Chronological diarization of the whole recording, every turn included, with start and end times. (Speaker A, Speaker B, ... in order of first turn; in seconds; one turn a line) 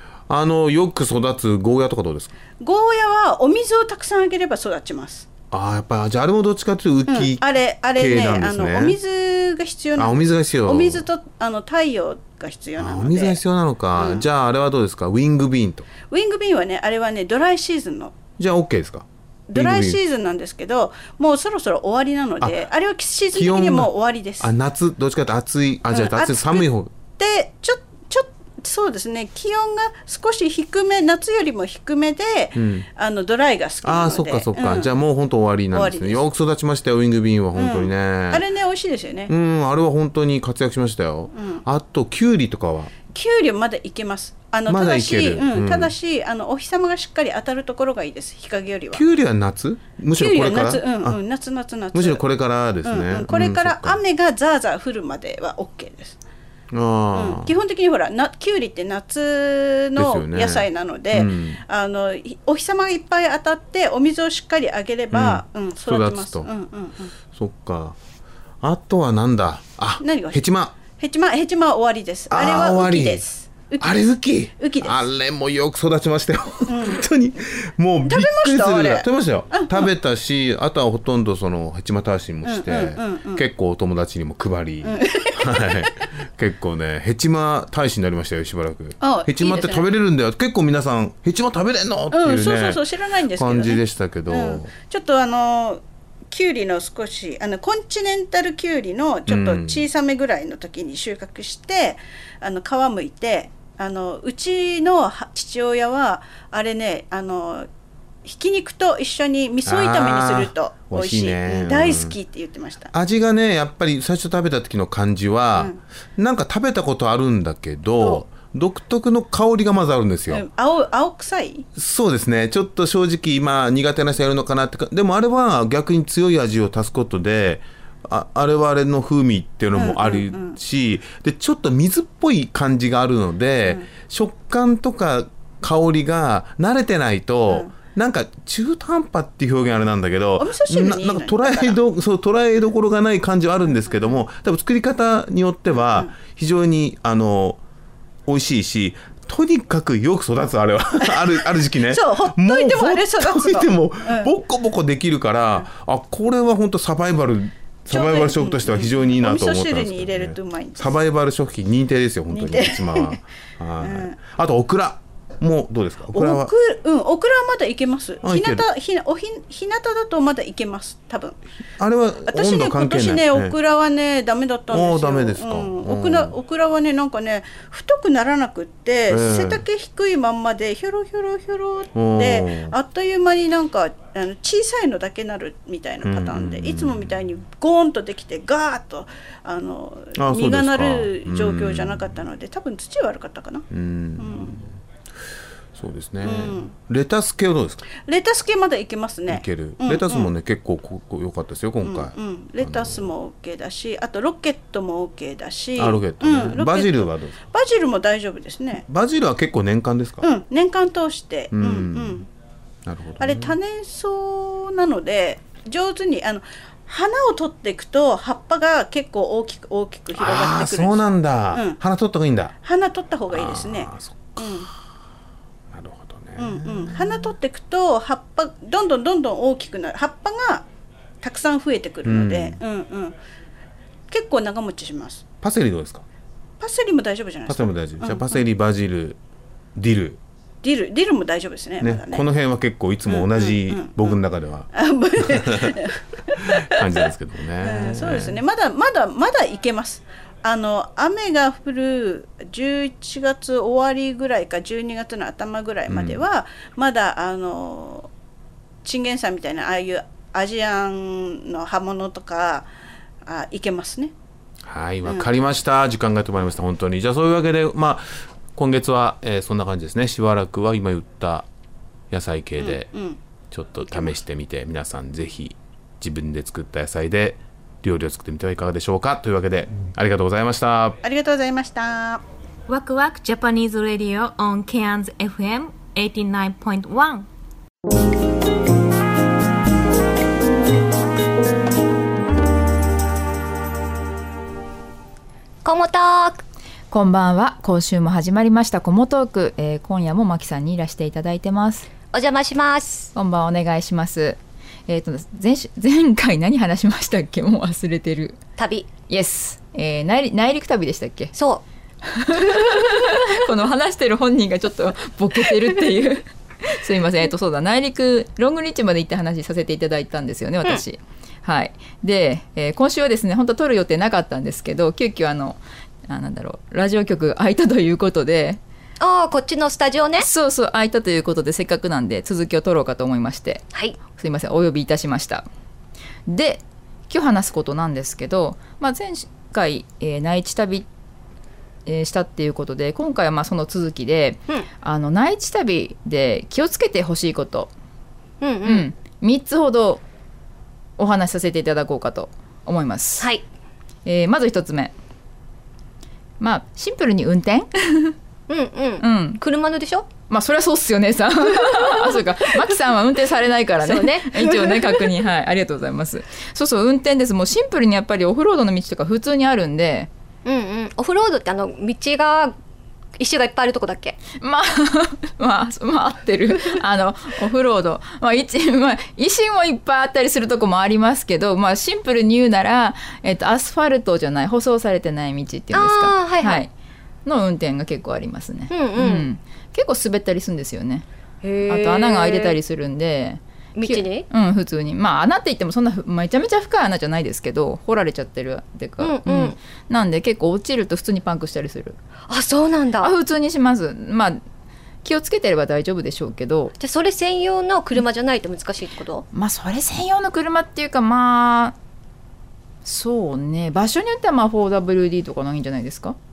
Speaker A: 0.3-2.4
Speaker B: 2.6-5.3
Speaker A: 5.5-9.0
Speaker B: 7.1-13.4
Speaker A: 10.0-11.0
Speaker A: 12.8-15.9
Speaker B: 13.9-14.2
Speaker B: 16.1-18.1
Speaker A: 18.4-20.0
Speaker B: 19.5-24.5
Speaker A: 23.3-26.9
Speaker B: 25.9-34.9
Speaker A: 32.5-32.9
Speaker A: 33.8-38.4
Speaker B: 35.7-36.2
Speaker B: 37.5-39.3
Speaker A: 39.3-42.9
Speaker B: 41.3-41.6
Speaker B: 43.1-49.0
Speaker A: 44.7-45.9
Speaker A: 48.9-51.2
Speaker B: 50.2-52.2
Speaker A: 51.9-54.0
Speaker B: 52.8-56.2
Speaker A: 56.7-57.5
Speaker B: 57.1-67.1
Speaker A: 60.0-61.6
Speaker A: 65.1-66.5
Speaker A: 67.3-68.0
Speaker A: 68.6-70.7
Speaker B: 70.0-75.0
Speaker A: 72.3-73.2
Speaker A: 73.8-92.8
Speaker B: 76.7-77.0
Speaker B: 78.0-79.9
Speaker B: 82.4-83.4
Speaker B: 84.8-85.9
Speaker B: 89.0-89.8
Speaker B: 92.1-107.7
Speaker A: 93.3-94.7
Speaker A: 99.3-99.9
Speaker B: 108.2-112.9
Speaker A: 109.7-112.2
Speaker A: 112.9-120.4
Speaker B: 115.5-115.8
Speaker B: 120.3-121.7
Speaker A: 121.8-147.6
Speaker B: 129.7-130.6
Speaker B: 137.5-137.7
Speaker B: 140.4-141.8
Speaker B: 143.8-144.2
Speaker A: 148.2-166.5
Speaker B: 151.0-154.3
Speaker B: 157.9-160.9
Speaker B: 162.3-163.2
Speaker B: 163.8-164.2
Speaker B: 166.1-171.4
Speaker A: 168.2-168.6
Speaker A: 171.8-173.6
Speaker B: 172.3-193.7
Speaker A: 174.7-176.3
Speaker A: 179.1-179.6
Speaker A: 181.9-182.7
Speaker A: 186.0-187.1
Speaker A: 190.2-192.2
Speaker A: 193.7-194.7
Speaker B: 194.2-194.6
Speaker A: 195.8-197.8
Speaker B: 196.2-196.7
Speaker B: 198.0-200.3
Speaker A: 199.3-203.1
Speaker B: 201.8-208.8
Speaker A: 205.8-207.4
Speaker A: 208.9-210.2
Speaker B: 210.2-212.3
Speaker A: 211.5-212.2
Speaker A: 212.8-213.6
Speaker B: 213.2-221.8
Speaker A: 220.1-222.5
Speaker B: 222.6-224.7
Speaker A: 223.3-224.7
Speaker A: 225.7-227.3
Speaker B: 226.4-230.7
Speaker B: 231.2-233.2
Speaker A: 232.0-232.6
Speaker B: 234.1-235.2
Speaker A: 235.4-236.0
Speaker B: 236.6-238.4
Speaker A: 237.5-239.2
Speaker A: 239.8-240.2
Speaker B: 240.6-242.3
Speaker A: 241.8-245.7
Speaker B: 243.1-244.2
Speaker B: 244.7-247.1
Speaker A: 246.6-248.4
Speaker B: 247.6-258.1
Speaker A: 255.9-256.2
Speaker B: 258.8-262.7
Speaker B: 263.2-264.1
Speaker A: 264.6-271.5
Speaker A: 272.1-272.9
Speaker B: 272.6-273.2
Speaker A: 273.5-281.0
Speaker B: 281.0-282.2
Speaker C: 282.7-287.2
Speaker D: 295.6-296.4
Speaker E: 296.9-301.9
Speaker D: 302.0-303.1
Speaker E: 303.1-308.4
Speaker D: 308.6-309.0
Speaker E: 309.1-311.3
Speaker D: 311.3-311.6
Speaker E: 312.1-328.6
Speaker D: 329.0-330.3
Speaker E: 330.2-335.4
Speaker D: 333.7-334.0
Speaker E: 336.3-340.9
Speaker E: 341.9-347.7
Speaker D: 348.4-348.8
Speaker E: 348.6-350.0
Speaker E: 351.0-353.3
Speaker D: 353.2-353.4
Speaker E: 354.1-354.9
Speaker E: 356.4-358.1
Speaker D: 358.5-360.1
Speaker E: 359.0-359.4
Speaker E: 360.2-370.1
Speaker D: 361.9-362.2
Speaker D: 363.8-365.1
Speaker D: 370.4-372.5
Speaker D: 373.2-374.2
Speaker E: 374.3-386.7
Speaker D: 385.7-386.6
Speaker E: 387.2-391.0
Speaker D: 388.7-389.2
Speaker D: 391.4-392.6
Speaker E: 391.6-402.0
Speaker D: 393.8-394.3
Speaker D: 399.0-399.6
Speaker D: 402.3-403.1
Speaker E: 403.0-404.4
Speaker E: 405.0-406.7
Speaker D: 406.8-409.2
Speaker E: 409.3-411.7
Speaker E: 412.8-416.2